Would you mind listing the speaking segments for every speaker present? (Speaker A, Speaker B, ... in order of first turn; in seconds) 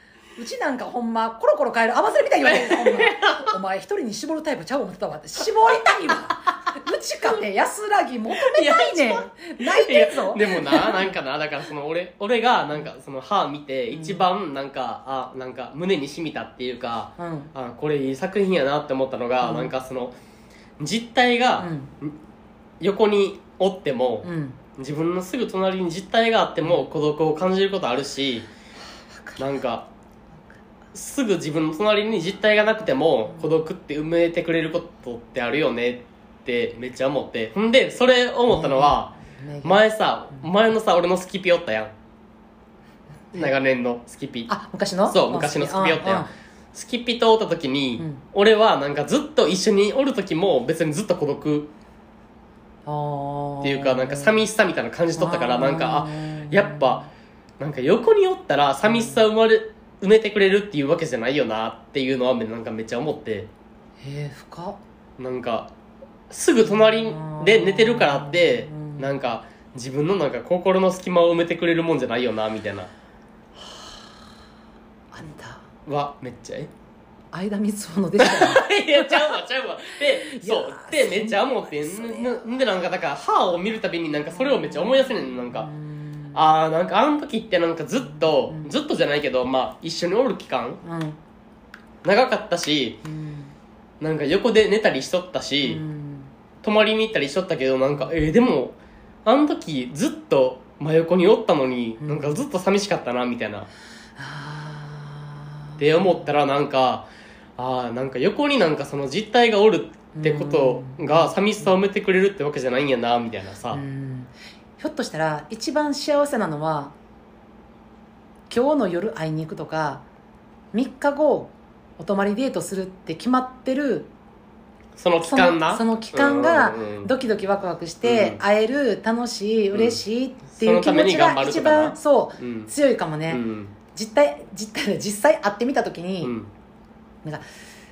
Speaker A: 0.3-11.1, 13.9-14.2, 17.2-17.5, 19.4-19.7, 21.6-21.9, 24.2-24.6, 38.5-39.8, 44.5-46.3, 48.0-48.2, 52.9-54.4, 55.2-57.0, 58.9-59.1, 64.0-64.8, 66.7-69.1, 73.6-74.0, 75.1-75.6, 77.3-79.3, 80.2-82.5, 84.4-86.4, 88.5-88.7, 90.8-91.2, 93.0-93.5, 95.6-96.3, 102.0-102.4, 104.2-106.2, 110.1-111.7, 113.7-116.9, 118.5-120.0, 120.7-124.1, 125.2-136.3
Speaker B: 2.4-3.5, 8.3-20.1, 20.8-22.1, 22.8-28.5, 29.4-29.9, 30.9-41.9, 43.3-44.5, 45.1-51.7, 53.6-57.1, 57.6-63.5, 65.2-65.7, 66.3-72.9, 75.8-76.7, 78.2-85.7, 86.3-90.8, 92.0-93.0, 94.0-95.8, 96.6-103.7, 105.8-113.8, 125.0-127.1, 128.0-128.4, 129.7-130.0, 130.5-132.7, 133.3-133.7, 136.2-136.5